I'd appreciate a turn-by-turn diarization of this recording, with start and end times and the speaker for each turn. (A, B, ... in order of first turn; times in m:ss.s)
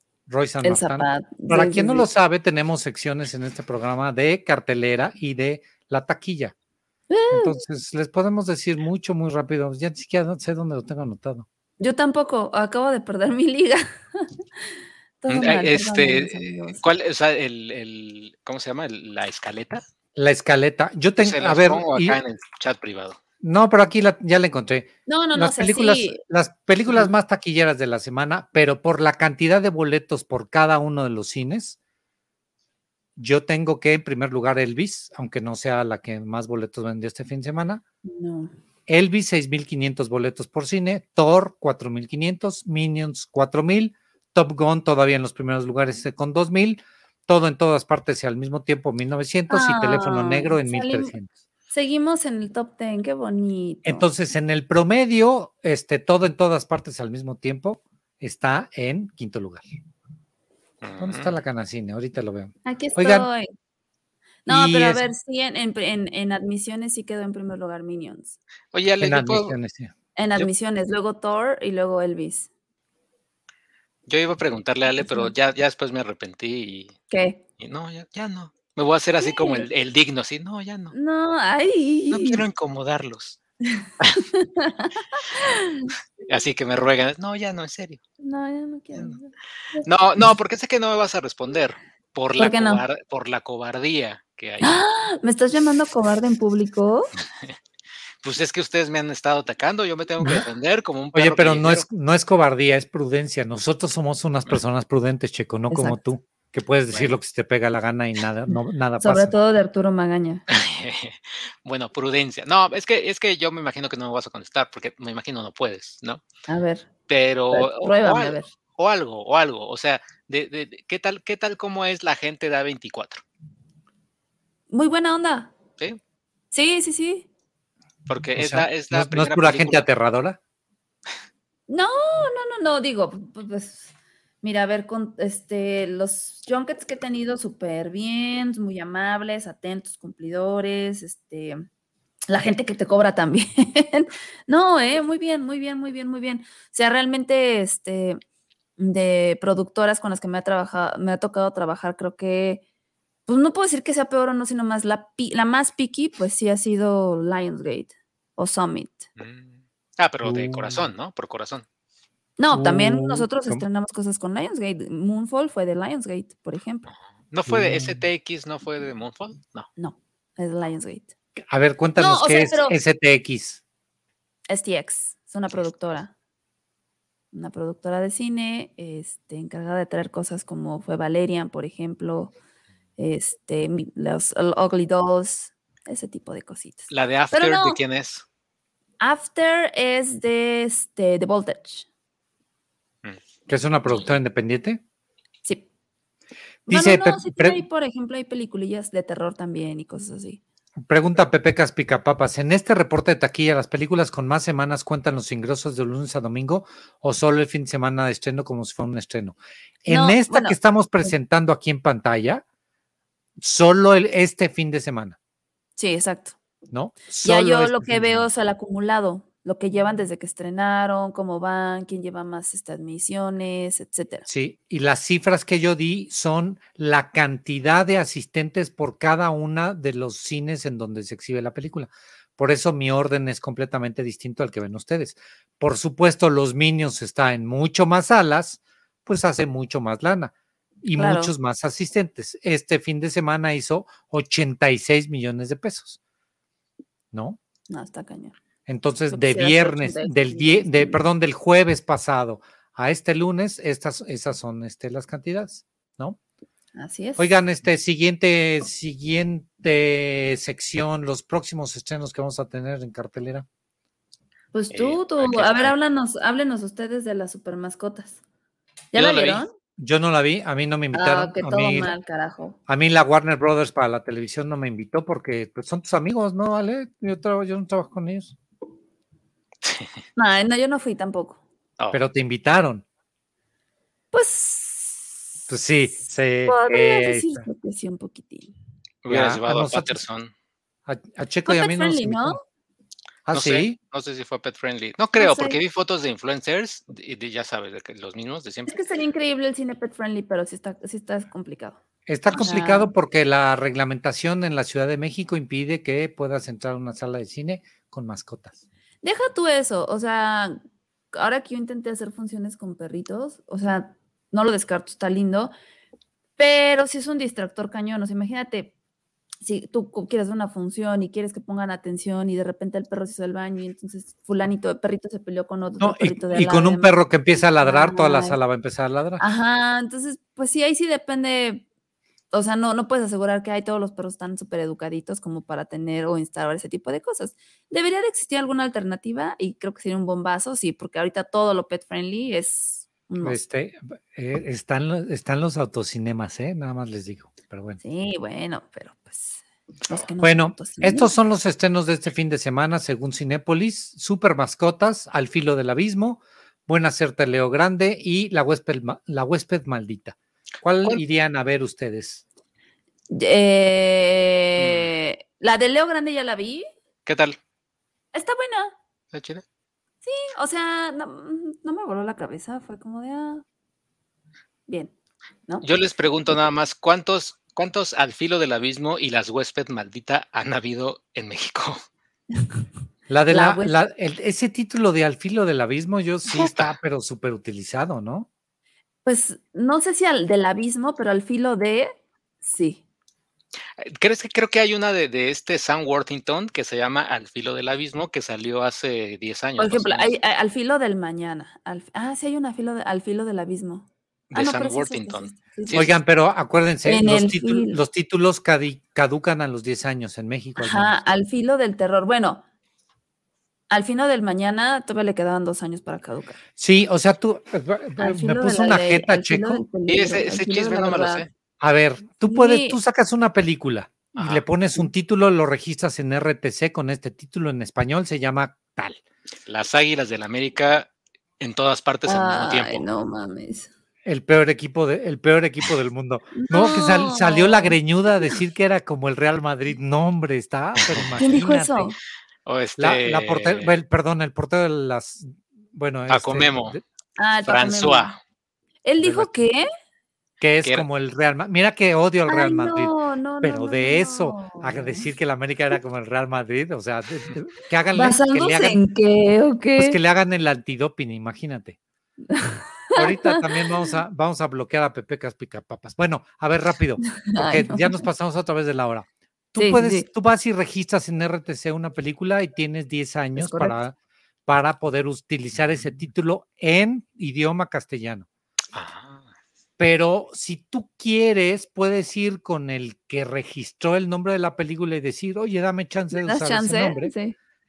0:00.3-0:06.6 A
0:00.6-0:02.1 B
0:07.1-0:07.6 B
0:07.3-0:11.5 A
0:11.8-0:14.3 B
0:15.2-0:16.8 B
0:15.3-0:19.8 C
0:20.2-0:22.2 A
0:21.2-0:23.2 C
0:23.4-0:31.8 A
0:25.1-0:26.2 B
0:33.2-0:37.8 A
0:38.0-0:38.5 B
0:38.9-0:51.3 A
0:49.5-0:51.1 B
0:51.7-0:54.1 B
0:53.8-0:59.7 A
1:00.8-1:01.4 C
1:01.0-1:03.3 A
1:02.6-1:03.5 B
1:04.5-1:08.4 B
1:04.5-1:05.0 A
1:08.7-1:09.6 C
1:09.0-1:09.9 A
1:10.2-1:12.5 B
1:14.1-1:17.0 C
1:15.0-1:15.3 B
1:17.1-1:17.4 B
1:17.6-1:20.9 C
1:19.2-1:19.6 B
1:20.9-1:22.4 B
1:22.1-1:23.4 C
1:23.7-1:25.9 B
1:26.3-1:28.0 C
1:28.2-1:29.9 B
1:29.8-1:34.8 C
1:32.4-1:32.8 B
1:34.6-1:37.1 B
1:38.2-1:41.8 C
1:41.1-1:49.3 A
1:45.7-1:46.0 B
1:46.9-1:47.2 C
1:48.5-1:50.4 B
1:50.5-1:56.2 C
1:56.5-1:56.9 B
1:57.1-2:03.2 C
1:57.5-1:58.5 B
2:04.7-2:05.5 B
2:06.5-2:07.3 B
2:08.1-2:09.8 C
2:08.4-2:10.4 A
2:11.7-2:21.6 B
2:22.3-2:28.2 B
2:28.8-2:32.6 B
2:33.3-2:39.1 B
2:39.2-2:41.6 C
2:40.2-2:40.9 A
2:42.4-2:46.9 B
2:42.5-2:43.6 A
2:46.9-2:49.7 C
2:47.5-2:48.0 A
2:49.8-2:51.1 B
2:51.5-2:53.6 A
2:52.0-2:52.8 B
2:54.5-2:56.1 B
2:57.3-3:02.3 B
3:03.0-3:07.8 B
3:06.9-3:08.2 C
3:09.0-3:11.9 B
3:13.5-3:14.8 A
3:16.7-3:17.6 A
3:16.7-3:20.4 B
3:20.8-3:32.4 A
3:29.9-3:31.1 B
3:33.4-3:35.2 A
3:35.8-3:36.4 B
3:36.7-3:38.3 A
3:37.2-3:44.3 B
3:44.3-4:00.3 A
4:00.8-4:06.0 A
4:01.0-4:01.3 B
4:07.1-4:07.4 A
4:07.7-4:08.4 B
4:08.7-4:16.2 A
4:09.1-4:11.0 B
4:16.8-4:17.3 B
4:17.2-4:23.5 A
4:24.5-4:28.2 B
4:24.7-4:25.7 C
4:28.9-4:29.5 B
4:29.0-4:29.4 C
4:29.8-4:31.9 A
4:30.9-4:32.6 B
4:32.7-4:38.4 A
4:39.6-4:39.9 C
4:40.2-4:41.4 B
4:41.9-4:42.8 A
4:44.1-4:45.2 B
4:45.5-4:47.5 A
4:46.5-4:48.5 B
4:49.0-4:50.3 C
4:49.1-4:50.0 A
4:50.9-4:52.4 A
4:51.5-4:52.4 B
4:53.3-4:53.8 A
4:53.3-4:58.8 C
4:55.2-4:55.6 B
4:58.7-5:01.8 B
5:02.1-5:08.6 A
5:02.3-5:02.9 B
5:09.0-5:10.6 B
5:11.1-5:15.5 B
5:16.4-5:18.7 B
5:19.4-5:28.4 B
5:25.8-5:29.2 A
5:29.2-5:31.7 B
5:32.3-5:43.4 B
5:43.2-5:47.8 A
5:47.8-5:51.1 B
5:50.2-6:02.2 A
6:03.1-6:06.7 B
6:04.6-6:04.9 C
6:07.1-6:07.4 C
6:08.1-6:08.8 B
6:09.1-6:09.4 C
6:10.0-6:13.4 B
6:14.7-6:14.9 B
6:15.6-6:21.8 C
6:23.1-6:28.3 A
6:23.3-6:23.8 B
6:26.3-6:26.7 C
6:29.0-6:32.8 B
6:33.8-6:40.1 C
6:39.6-6:45.9 B
6:44.3-6:45.9 C
6:45.7-6:51.0 A
6:46.8-6:47.8 B
6:50.6-6:52.4 B
6:53.7-6:56.4 B
6:56.6-6:59.6 A
6:58.0-7:01.3 B
6:59.9-7:01.3 C
7:01.6-7:09.0 A
7:02.2-7:02.8 B
7:04.2-7:04.4 C
7:09.5-7:12.9 C
7:12.1-7:13.7 B
7:14.0-7:21.9 A
7:16.4-7:18.3 B
7:20.8-7:21.2 C
7:21.2-7:22.0 B
7:22.5-7:23.7 C
7:22.8-7:26.8 A
7:26.1-7:26.8 C
7:27.2-7:28.2 B
7:27.5-7:28.2 C
7:28.8-7:29.7 B
7:29.0-7:29.3 A
7:30.4-7:38.8 A
7:32.3-7:35.1 B
7:37.9-7:40.0 B
7:39.8-7:41.8 A
7:42.3-7:43.7 B
7:43.0-7:54.0 A
7:47.2-7:48.1 B
7:49.6-7:50.1 B
7:53.4-7:53.8 B
7:54.5-7:58.3 A
7:58.7-7:59.3 C
7:59.8-8:07.2 A
8:06.1-8:07.4 B